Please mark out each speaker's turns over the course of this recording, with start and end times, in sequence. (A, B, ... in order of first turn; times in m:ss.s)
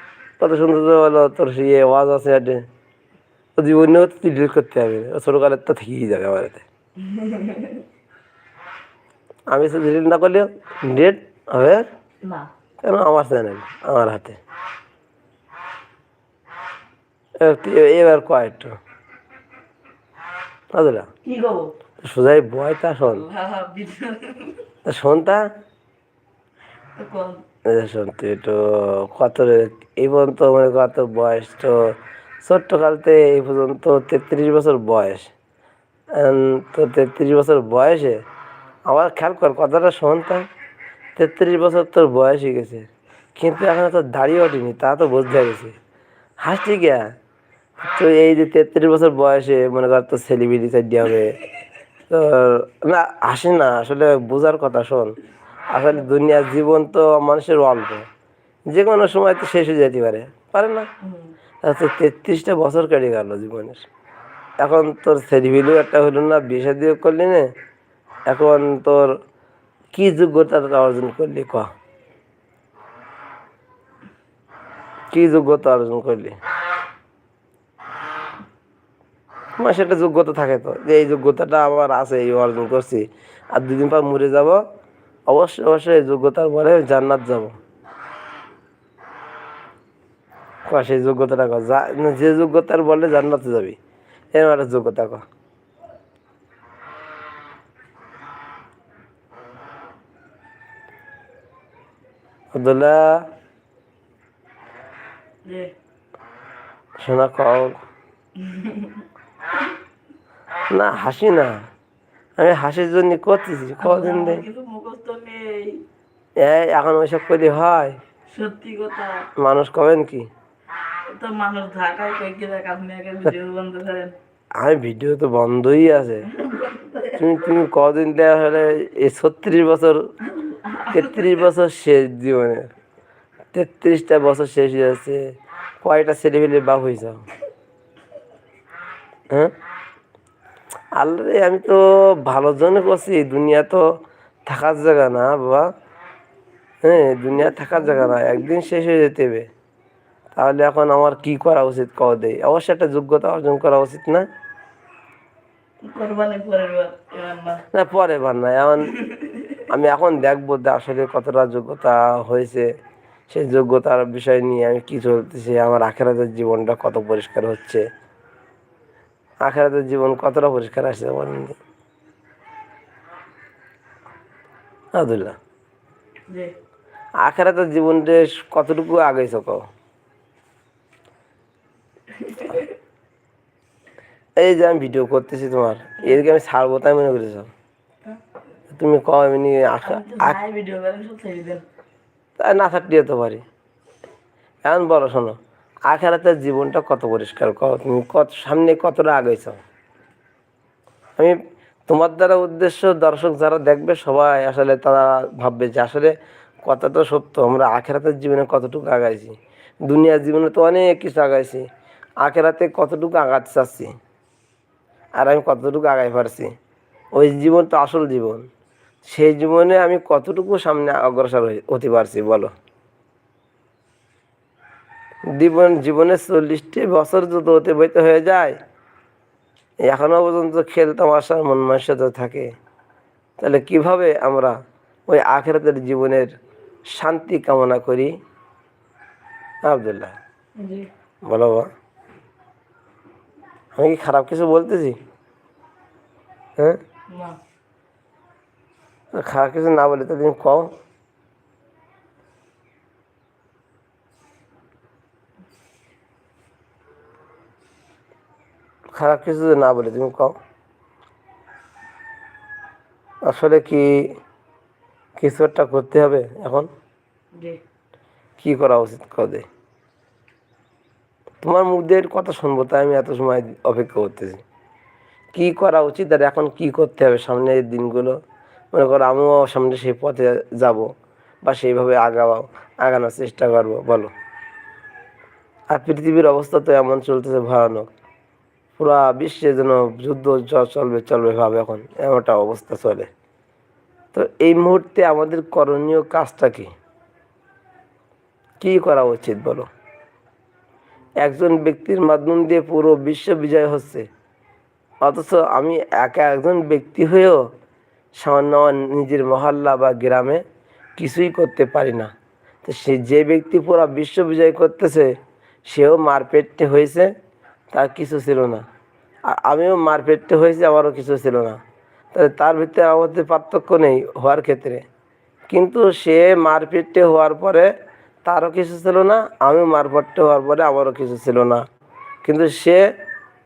0:00.4-0:02.6 A
0:03.6-0:06.6 A
0:07.0-0:07.9 B
0:09.5-0:11.8 A
0:12.2-0:12.5 B
0:12.8-0:14.4 A
0:17.4-0:18.8 A
0:20.7-0:21.1 A
0:21.2-0:21.7 B
0:22.0-0:23.2 A
0:23.1-0:24.7 B
0:24.8-0:25.4 A
0:27.0-0:27.4 B
0:27.7-0:35.3 A
0:36.1-0:38.2 A
0:38.9-0:40.5 A
0:41.2-0:45.8 A
0:46.4-0:47.1 A
0:47.8-0:51.4 A
0:52.1-0:55.2 A
0:55.7-0:58.1 A
0:58.7-1:00.9 A
1:01.0-1:01.3 B
1:01.6-1:03.9 A
1:04.6-1:07.5 A
1:08.3-1:09.1 A
1:09.9-1:11.7 A
1:15.1-1:16.4 A
1:19.6-1:24.6 A
1:25.3-1:27.6 A
1:30.7-1:33.8 A
1:34.3-1:35.2 A
1:42.5-1:43.2 A
1:45.4-1:45.7 B
1:47.0-1:47.8 A
1:48.4-1:49.1 B
1:50.7-1:51.6 A
1:52.4-1:54.4 A
1:53.8-1:55.8 B
1:56.4-1:58.0 A
1:58.3-1:59.3 B
1:59.4-2:00.3 A
2:01.1-2:04.2 B
2:04.6-2:06.3 A
2:06.3-2:07.3 B
2:07.1-2:10.0 A
2:10.3-2:11.4 B
2:10.9-2:12.7 A
2:13.5-2:15.2 A
2:15.8-2:17.2 A
2:21.0-2:23.8 A
2:24.5-2:25.7 A
2:26.8-2:29.5 A
2:30.4-2:34.2 A
2:35.8-2:37.6 B
2:37.7-2:38.9 A
2:38.8-2:39.6 B
2:39.7-2:42.7 A
2:43.3-2:47.8 A
2:49.4-2:51.6 A
2:55.0-2:55.4 A
2:56.3-2:56.5 B
2:57.2-2:59.6 A
3:02.1-3:02.8 B
3:04.4-3:07.5 A
3:08.7-3:10.4 A
3:09.8-3:11.6 B
3:12.4-3:13.4 A
3:14.6-3:15.4 A
3:15.9-3:19.6 A
3:21.9-3:29.4 A
3:29.9-3:31.7 A
3:32.2-3:33.9 A
3:35.2-3:36.5 A
3:37.2-3:38.4 A
3:39.0-3:42.5 A
3:45.4-3:48.6 A
3:49.8-3:52.5 A
3:53.4-3:54.6 A
3:55.1-3:56.3 A
3:56.9-3:58.2 A
3:59.6-4:00.2 A
4:00.6-4:00.9 B
4:01.3-4:01.7 A
4:03.8-4:05.0 A
4:07.1-4:07.4 B
4:09.1-4:10.7 A
4:18.9-4:20.4 A
4:23.3-4:24.1 A
4:25.2-4:26.7 A
4:27.4-4:27.6 B
4:28.4-4:29.5 A
4:31.4-4:34.4 A
4:35.3-4:38.2 A
4:38.7-4:40.9 A
4:41.4-4:44.1 A
4:45.7-4:47.9 A
4:48.8-4:53.1 A
4:54.1-4:56.7 A
4:58.6-4:59.7 A
5:01.2-5:04.1 A
5:05.0-5:07.4 A
5:08.2-5:10.4 A
5:11.0-5:12.1 A
5:12.6-5:15.1 A
5:15.7-5:17.1 A
5:17.7-5:18.6 A
5:19.3-5:21.6 A
5:22.1-5:24.8 A
5:25.5-5:27.7 A
5:28.2-5:31.6 A
5:32.2-5:32.9 A